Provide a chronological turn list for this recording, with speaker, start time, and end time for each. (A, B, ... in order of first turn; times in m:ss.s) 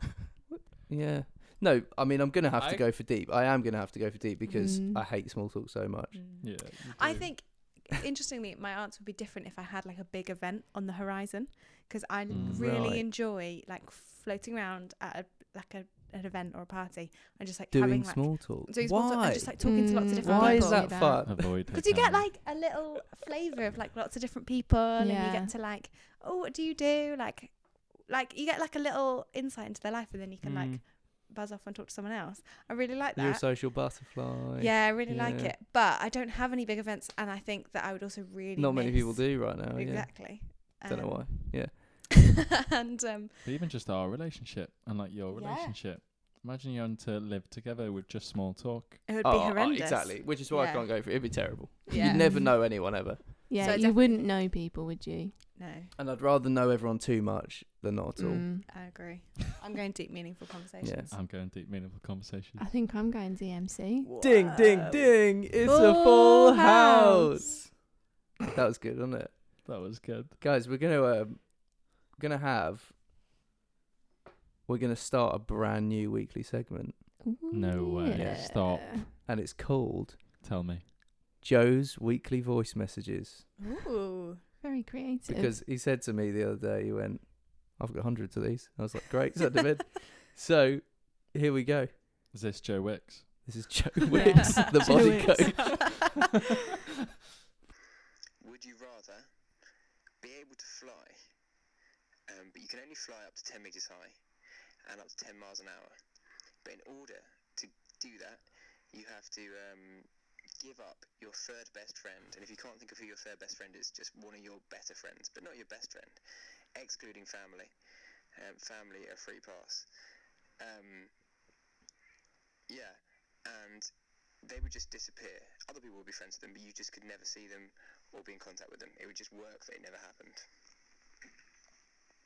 0:00.5-0:06.2 A
0:02.6-0:02.8 B
0:04.5-0:05.0 C
0:06.1-0:33.9 D
0:06.4-0:07.4 B
0:12.3-0:12.7 B
0:12.4-0:13.1 A
0:17.7-0:21.5 A
0:19.6-0:21.2 C
0:21.2-0:22.3 B
0:25.0-0:25.5 C
0:30.4-0:30.8 A
0:33.2-0:35.5 A
0:34.6-0:41.9 D
0:38.6-0:42.0 A
0:42.8-0:43.3 D
0:43.4-0:49.1 B
0:45.3-0:45.8 D
0:49.1-0:52.5 D
0:49.2-0:53.5 A
0:51.9-0:55.4 C
0:53.6-0:54.3 D
0:55.6-0:55.9 D
0:56.0-0:58.5 A
0:58.2-0:58.7 C
0:58.7-1:01.1 D
1:00.8-1:01.1 A
1:01.1-1:02.7 B
1:02.6-1:04.1 C
1:04.0-1:05.2 D
1:04.2-1:07.7 A
1:05.6-1:07.4 C
1:08.5-1:09.3 A
1:09.6-1:10.4 B
1:10.4-1:13.0 A
1:14.7-1:17.0 A
1:17.2-1:19.1 C
1:17.5-1:19.0 B
1:18.1-1:20.2 A
1:20.4-1:20.8 B
1:21.4-1:23.5 A
1:23.6-1:24.4 D
1:24.6-1:25.6 C
1:25.3-1:31.9 A
1:32.3-1:33.6 B
1:33.4-1:36.1 A
1:34.1-1:36.0 D
1:34.1-1:36.0 C
1:38.4-1:39.3 E
1:40.2-1:41.2 E
1:42.3-1:44.2 E
1:44.9-1:46.0 E
1:46.6-1:50.1 E
1:50.6-1:56.2 E
1:56.8-1:57.7 E
1:58.4-1:59.9 E
2:00.6-2:01.1 E
2:02.7-2:03.9 E
2:04.4-2:10.4 E